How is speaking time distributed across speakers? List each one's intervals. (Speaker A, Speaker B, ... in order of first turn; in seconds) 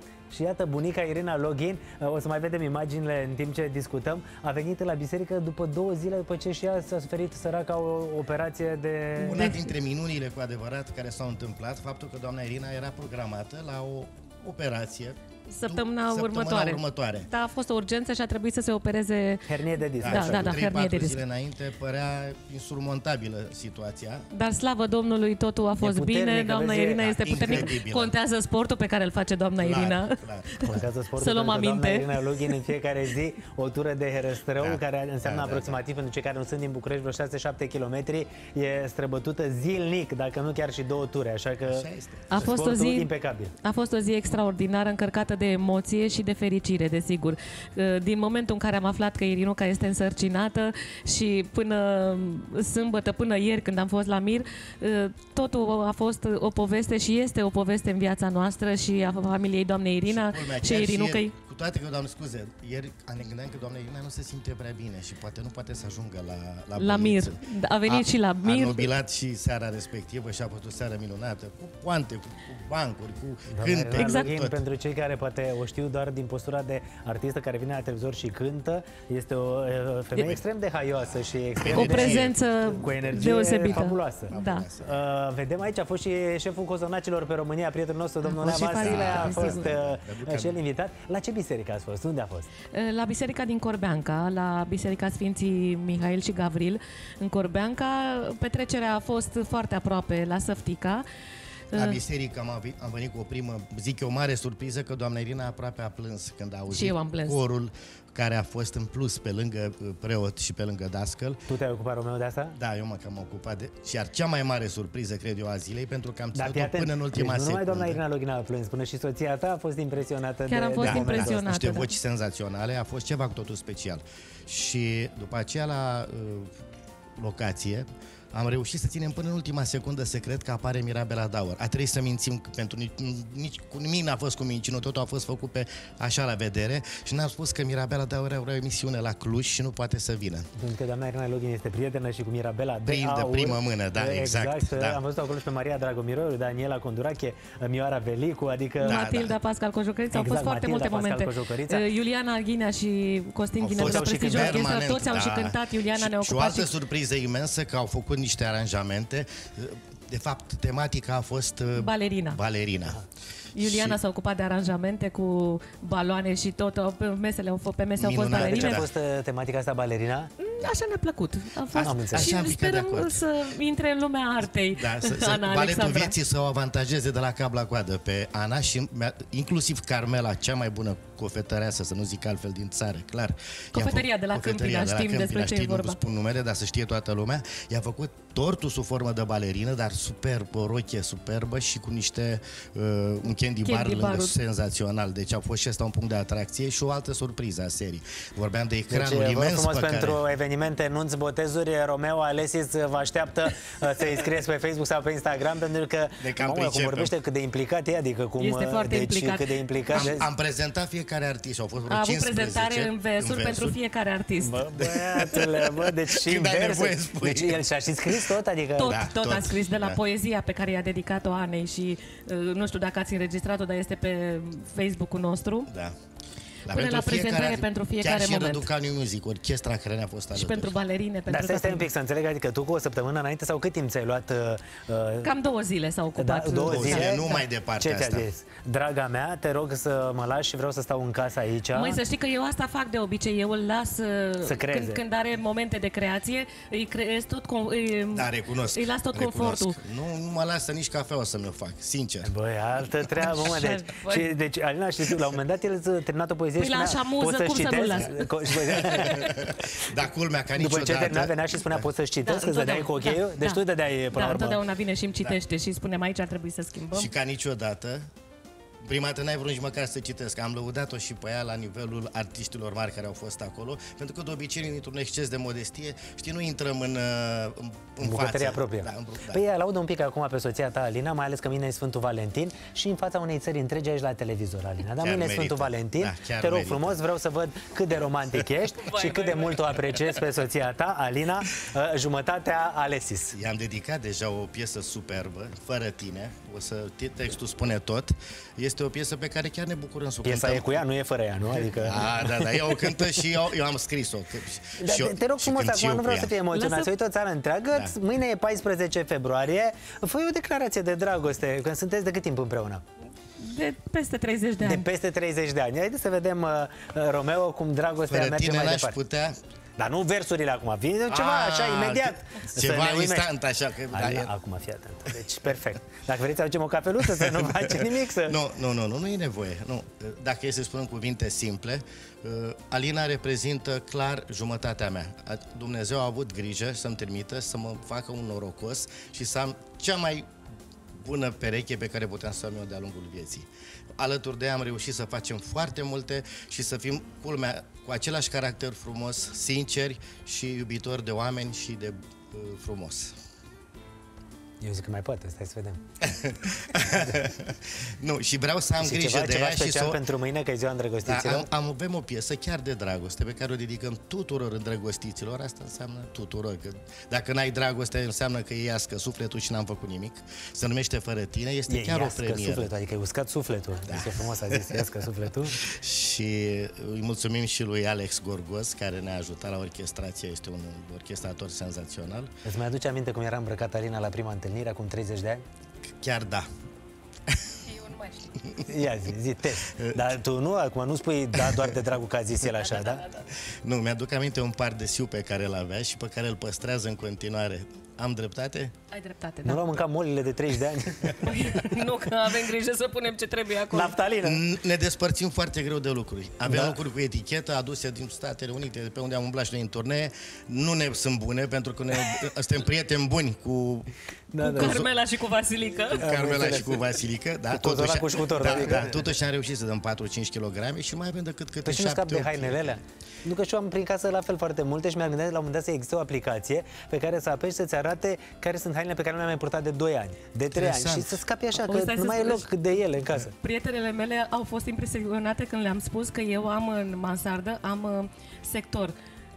Speaker A: 0.3-9.5, 19.5-20.6, 25.8-27.6, 30.6-43.5, 73.5-92.5, 111.5-112.5, 116.3-121.5, 140.6-149.0, 150.1-151.8, 153.8-154.8, 168.3-170.3, 171.8-172.3, 198.9-210.3, 214.4-219.0, 231.3-235.3, 236.2-237.2, 237.8-242.0, 244.4-245.0, 252.2-259.3, 260.6-264.6, 278.0-293.4, 300.2-302.9, 304.8-312.8, 314.6-319.0, 319.8-323.3, 323.9-328.4, 354.6-355.8, 358.8-361.5, 371.7-375.6, 382.4-385.4, 388.7-393.0, 399.4-401.3, 403.7-404.4, 406.5-406.8, 414.3-414.8, 416.0-416.9, 417.5-418.9, 421.7-433.3
Speaker B: 9.2-9.7, 15.5-21.2, 24.3-32.5, 42.3-43.1, 43.6-61.4, 66.8-68.9, 74.0-74.3, 81.7-84.7, 88.3-89.7, 92.7-101.0, 101.7-102.0, 106.7-107.4, 120.5-121.9, 148.8-156.7, 161.8-162.4, 163.6-168.8, 170.4-176.1, 183.7-186.0, 193.7-194.3, 208.4-210.1, 211.9-214.6, 218.8-225.7, 226.7-228.7, 230.3-231.9, 235.2-237.4, 241.7-249.8, 253.2-254.3, 256.6-258.3, 262.2-263.6, 264.1-267.1, 288.9-289.8, 306.5-306.9, 313.4-314.9, 387.7-388.3, 392.6-393.3, 398.9-399.8, 401.2-404.0, 414.4-416.0, 431.7-438.9
Speaker C: 9.2-17.3, 20.0-24.3, 27.2-28.1, 29.6-30.7, 34.6-35.8, 41.7-42.5, 60.1-74.6, 81.6-82.4, 83.2-83.5, 84.3-85.0, 88.6-90.6, 101.7-111.4, 112.6-118.0, 120.8-126.5, 127.2-140.5, 142.9-145.0, 148.8-149.4, 153.6-163.0, 163.6-164.0, 168.0-168.9, 171.7-173.2, 174.8-200.2, 206.2-207.1, 209.9-213.8, 214.8-217.6, 218.8-220.0, 225.7-225.9, 226.7-230.7, 236.6-238.3, 248.1-252.3, 258.8-261.9, 266.9-268.1, 268.8-279.4, 285.0-287.0, 293.3-300.8, 301.6-306.3, 318.1-319.4, 321.1-324.3, 327.2-340.3, 341.0-353.1, 356.0-360.0, 361.1-372.7, 373.9-374.8, 375.6-382.3, 386.0-386.5, 389.7-390.1, 393.6-398.7, 404.2-413.9, 414.6-414.9, 415.9-422.8, 430.5-431.2